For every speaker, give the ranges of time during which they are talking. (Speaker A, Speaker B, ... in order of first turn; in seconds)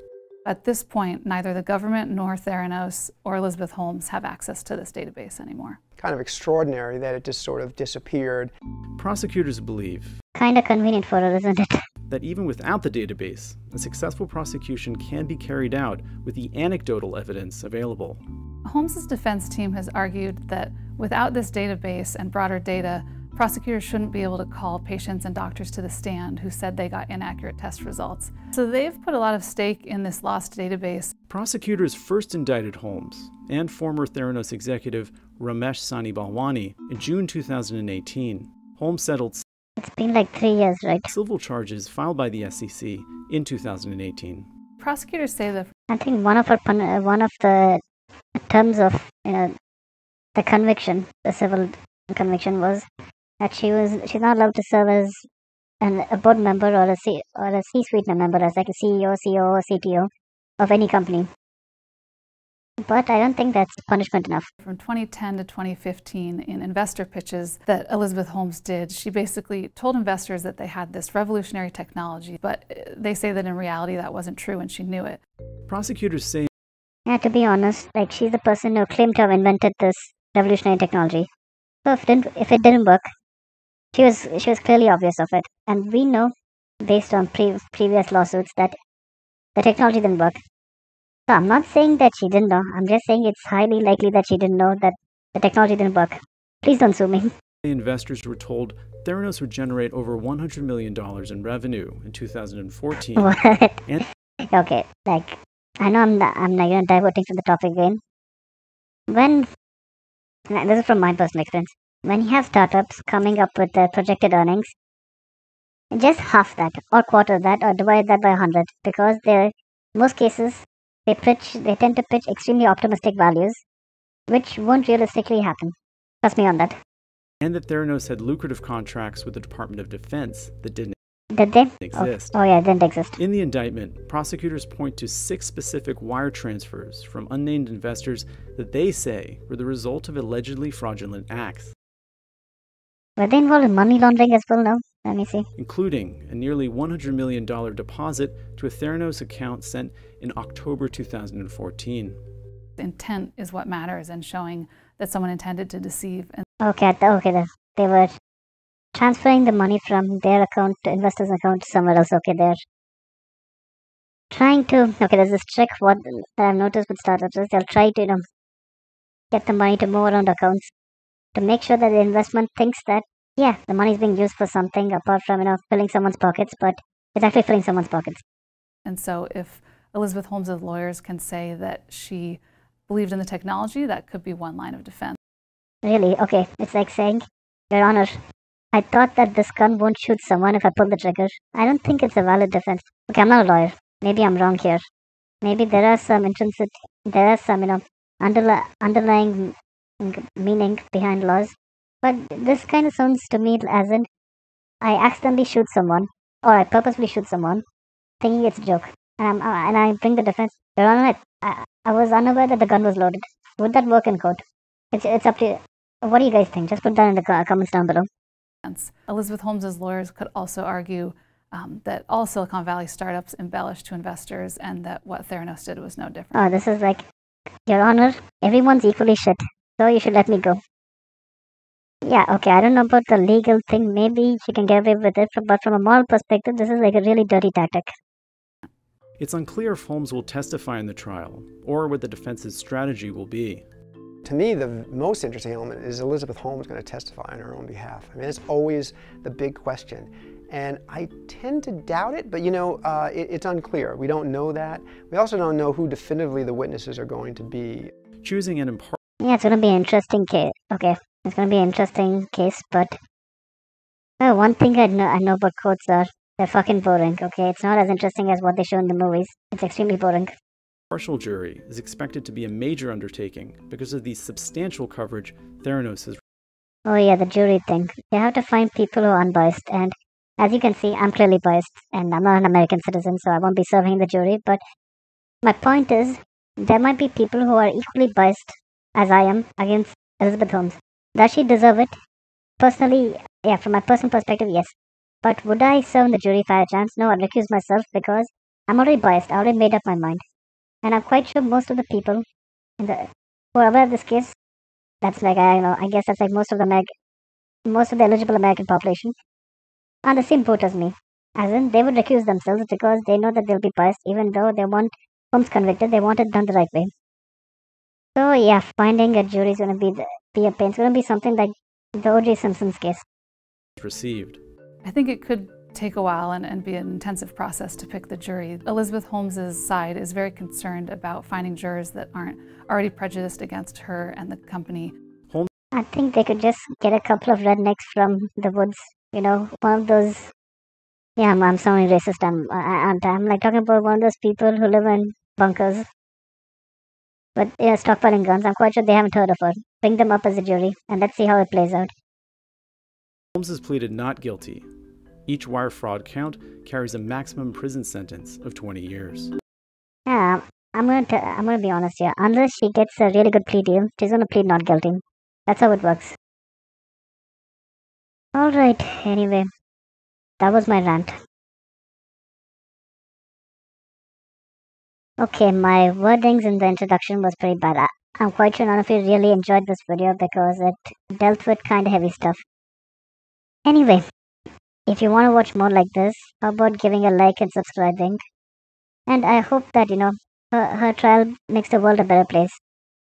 Speaker A: 0.4-5.8, 18.6-31.1, 44.8-45.7, 64.6-75.2, 152.8-156.4, 178.8-185.2, 218.6-226.4, 324.8-334.9
Speaker B: 6.0-8.5, 244.2-257.9
Speaker C: 8.9-10.2, 12.1-18.2, 31.3-39.4, 41.1-44.5, 75.7-76.5, 97.6-103.3, 127.4-130.9, 131.8-132.4, 133.2-141.7, 145.6-152.2, 239.2-243.7, 258.2-259.0, 270.9-276.2, 323.8-324.4, 353.4-354.7, 355.3-359.3
Speaker D: 10.3-11.8, 39.8-41.1, 45.9-47.8, 48.4-49.5, 50.4-52.9, 53.4-55.2, 55.8-61.3, 62.8-64.5, 77.1-81.3, 81.8-83.1, 83.9-86.3, 86.8-88.8, 89.5-90.4, 91.3-97.3, 103.2-103.8, 104.5-108.0, 109.1-109.5, 110.5-114.7, 115.9-123.6, 124.3-126.8, 131.3-133.2, 143.2-145.4, 156.6-158.1, 158.9-162.6, 164.3-168.2, 169.3-170.7, 171.3-178.2, 185.8-188.2, 188.7-194.8, 195.4-204.1, 204.8-207.6, 208.2-214.4, 214.9-218.1, 226.3-227.0, 227.7-230.6, 232.0-237.9, 259.2-262.9, 264.2-270.3, 276.9-284.6, 285.4-291.9, 292.6-300.2, 300.8-302.2, 302.8-304.3, 305.0-306.9, 307.7-309.1, 310.0-316.9, 318.1-323.0, 335.7-340.3, 341.2-345.9, 347.4-351.9, 360.1-366.1, 368.3-369.5, 370.4-371.1, 375.2-382.4, 383.6-384.0, 384.9-388.2, 389.1-392.6